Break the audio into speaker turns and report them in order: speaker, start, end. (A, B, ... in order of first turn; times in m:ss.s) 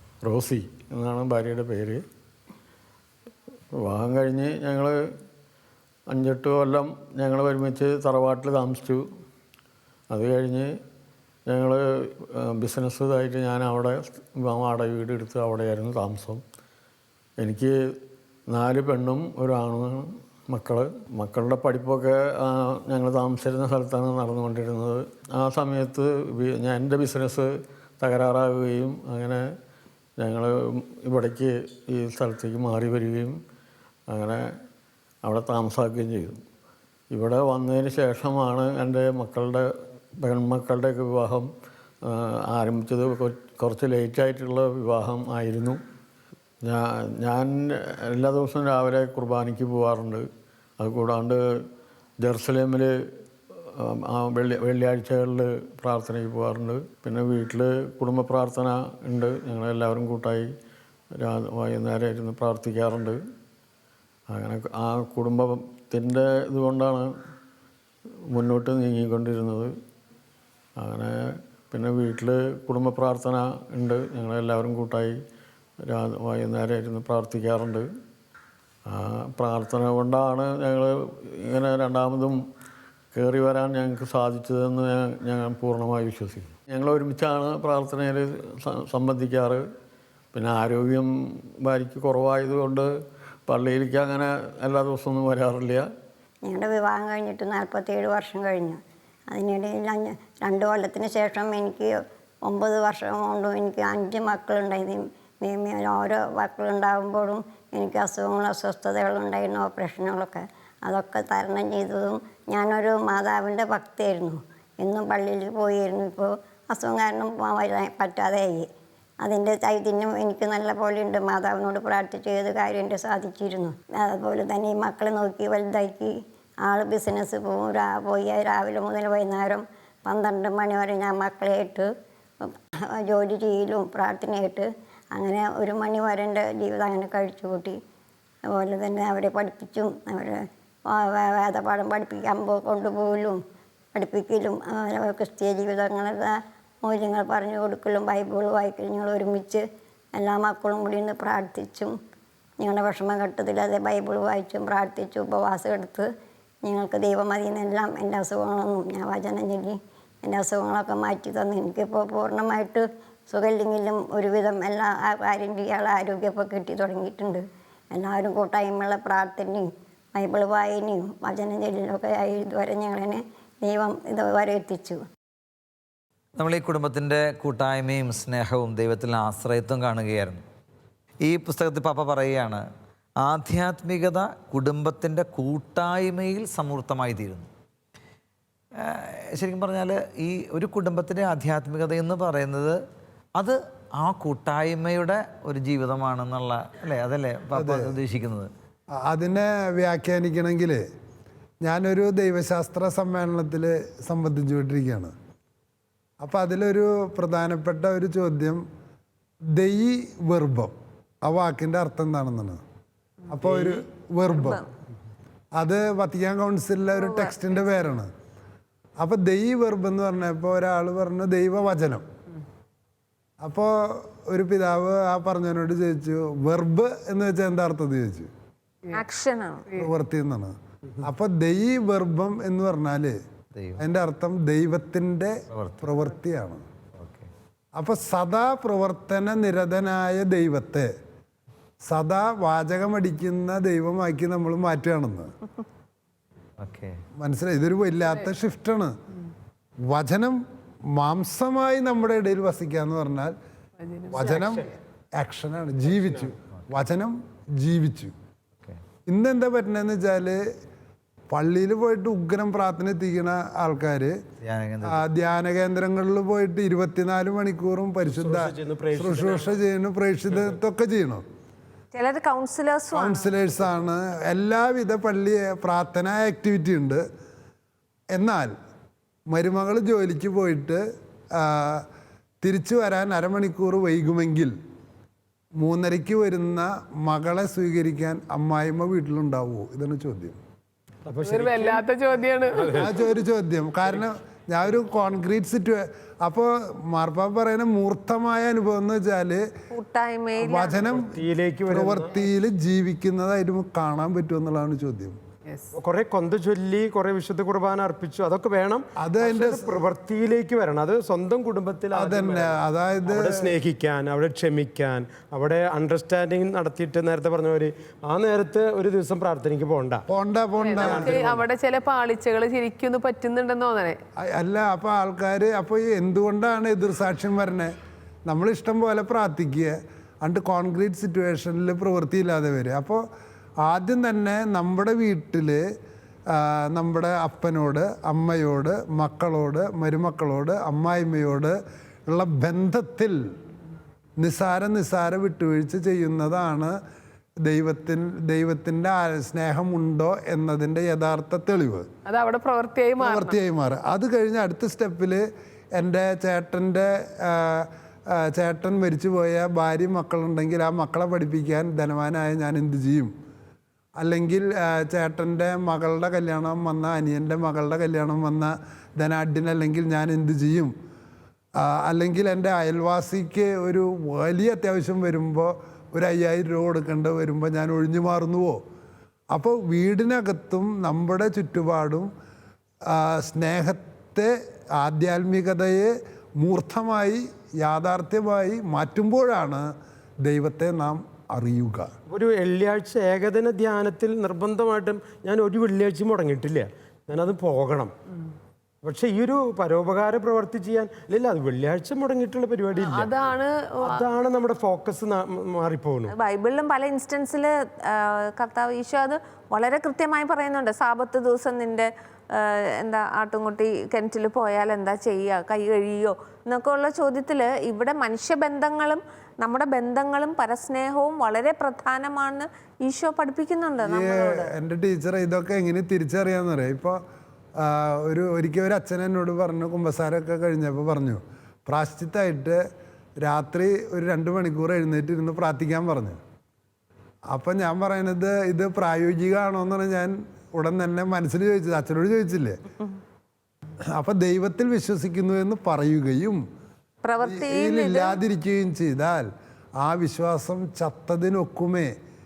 0:00.2-0:02.0 A
0:03.8-0:05.0 A
0:06.1-0:09.0 A
0:10.1-0:10.7 A
0:11.5-0:16.4 A
0:17.4-0:17.8 A
0:18.5-0:29.5 A
0:30.2-0:33.4 A
0:34.1-0:34.5 A
0:35.2-0:36.4 A
0:37.1-0:41.5 A
0:42.0-0:45.8 A
0:46.6-0:50.3 A
0:50.8-0:51.7 A
0:52.2-0:52.9 A
0:53.6-1:00.5 A
1:01.2-1:03.2 A
1:04.3-1:07.1 A
1:08.3-1:09.7 A
1:10.8-1:15.2 A
1:15.8-1:17.9 A
1:18.9-1:22.4 A
1:23.1-1:29.6 A
1:30.3-1:32.9 A
1:33.5-1:35.9 A
1:36.4-1:38.8 B
1:39.3-1:58.7 B
1:59.2-2:11.9 B
2:12.4-2:17.8 B
2:18.5-2:23.4 B
2:24.0-2:29.6 B
2:30.2-2:32.0 B
2:32.6-2:36.1 B
2:36.6-2:55.0 B
2:56.4-3:00.4 C
3:01.2-3:02.6 C
3:03.2-3:07.5 C
3:08.8-3:12.8 C
3:13.4-3:18.5 C
3:17.5-3:17.9 D
3:19.0-3:20.9 D
3:21.6-3:25.2 D
3:26.2-3:28.6 D
3:29.5-3:32.6 D
3:33.3-3:34.6 D
3:33.5-3:33.8 E
3:34.3-3:34.6 F
3:35.6-3:38.1 D
3:36.9-3:37.6 F
3:39.0-3:42.1 D
3:43.4-3:48.3 D
3:48.9-3:49.7 F
3:49.7-3:53.2 D
3:53.5-3:53.8 C
3:53.8-3:56.6 D
3:55.5-3:55.9 C
3:57.0-3:57.3 C
3:57.8-4:00.9 D
4:01.8-4:05.3 D
4:06.6-4:07.0 C
4:07.2-4:09.0 D
4:09.9-4:13.4 D
4:13.8-4:14.2 G
4:14.1-4:18.1 D
4:14.2-4:14.7 E
4:15.8-4:16.3 E
4:19.1-4:20.4 D
4:21.3-4:24.2 D
4:24.4-4:25.0 C
4:24.8-4:31.2 D
4:28.1-4:29.5 E
4:31.9-4:33.3 F
4:32.9-4:37.0 D
4:38.1-4:38.5 D
4:39.3-4:40.8 D
4:41.3-4:41.9 D
4:42.4-4:44.6 D
4:45.6-4:50.4 D
4:51.1-4:51.9 E
4:51.2-4:52.9 G
4:52.4-4:53.1 E
4:52.8-4:59.5 D
4:59.7-5:00.9 F
5:00.4-5:05.2 D
5:00.8-5:02.2 E
5:05.7-5:20.0 E
5:09.0-5:09.8 D
5:11.9-5:13.5 D
5:20.1-5:21.4 D
5:20.6-5:24.0 G
5:20.7-5:21.5 E
5:24.2-5:27.8 D
5:28.3-5:33.0 D
5:33.6-5:35.6 D
5:36.3-5:43.2 D
5:44.2-5:46.8 D
5:47.4-5:51.9 D
5:52.1-5:53.4 G
5:53.0-6:03.1 D
6:04.0-6:10.7 D
6:11.6-6:18.6 D
6:19.3-6:22.1 D
6:22.9-6:29.7 D
6:30.2-6:31.9 D
6:32.1-6:37.9 E
6:38.8-6:43.2 E
6:42.9-6:44.0 G
6:43.8-6:46.1 E
6:46.1-7:04.5 F
7:03.8-7:07.0 D
7:07.6-7:12.6 D
7:13.2-7:16.2 D
7:17.3-7:22.6 D
7:24.0-7:26.4 D
7:27.0-7:28.2 F
7:27.2-7:29.3 D
7:29.8-7:31.9 D